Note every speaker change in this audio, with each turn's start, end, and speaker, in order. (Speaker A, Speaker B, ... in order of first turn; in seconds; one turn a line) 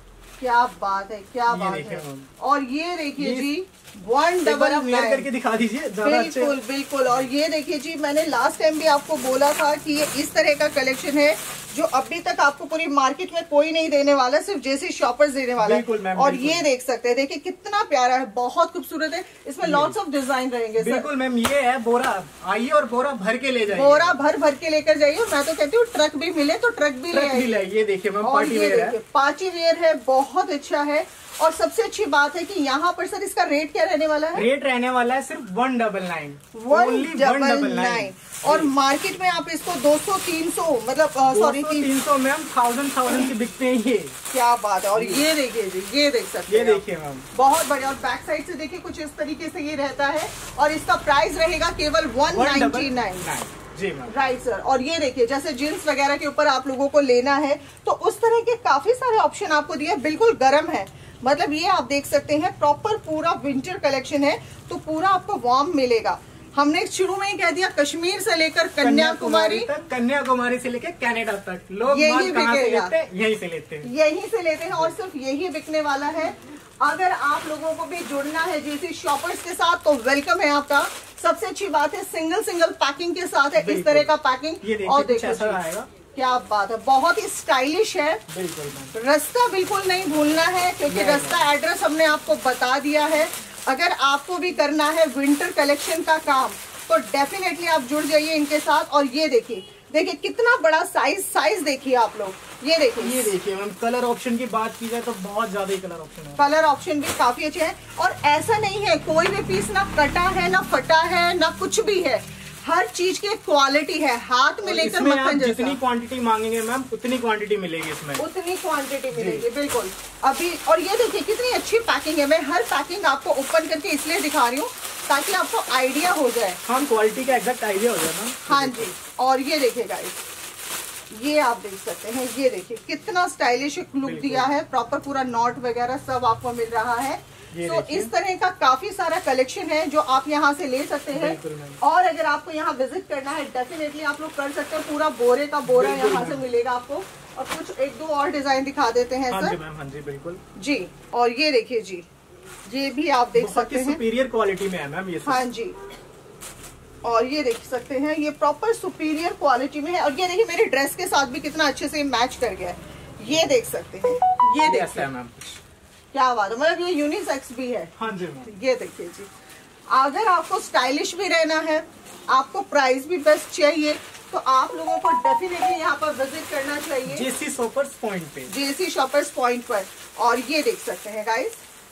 Speaker A: 0.4-5.3
Speaker B: 1.5-2.3
Speaker B: 3.2-3.5
Speaker B: 4.4-6.6
Speaker A: 6.0-21.1
Speaker B: 15.6-16.6
Speaker B: 19.6-19.9
Speaker B: 20.8-24.2
Speaker A: 23.7-27.6
Speaker B: 27.1-29.0
Speaker A: 28.2-34.5
Speaker B: 34.3-38.7
Speaker A: 36.5-41.9
Speaker B: 41.3-44.1
Speaker A: 44.3-46.8
Speaker B: 44.9-45.2
Speaker B: 46.5-47.3
Speaker A: 47.3-53.2
Speaker B: 52.3-54.1
Speaker A: 54.1-69.7
Speaker B: 68.8-73.9
Speaker A: 71.9-72.9
Speaker A: 73.8-85.6
Speaker B: 83.6-85.9
Speaker A: 86.1-88.2
Speaker B: 88.3-88.9
Speaker A: 88.9-103.3
Speaker B: 90.9-91.5
Speaker B: 103.0-106.4
Speaker A: 106.4-115.8
Speaker B: 114.6-118.2
Speaker A: 118.2-126.6
Speaker B: 119.1-119.5
Speaker B: 126.6-128.9
Speaker A: 128.5-130.2
Speaker A: 131.1-149.6
Speaker B: 134.0-134.5
Speaker B: 137.5-138.1
Speaker B: 141.1-141.8
Speaker B: 145.7-146.4
Speaker B: 149.3-150.4
Speaker A: 150.6-152.1
Speaker A: 152.7-154.0
Speaker B: 153.3-155.4
Speaker A: 155.2-155.8
Speaker A: 157.0-165.1
Speaker B: 164.6-165.6
Speaker A: 166.1-169.3
Speaker B: 168.0-168.5
Speaker A: 169.9-177.3
Speaker B: 177.1-178.5
Speaker A: 178.5-181.6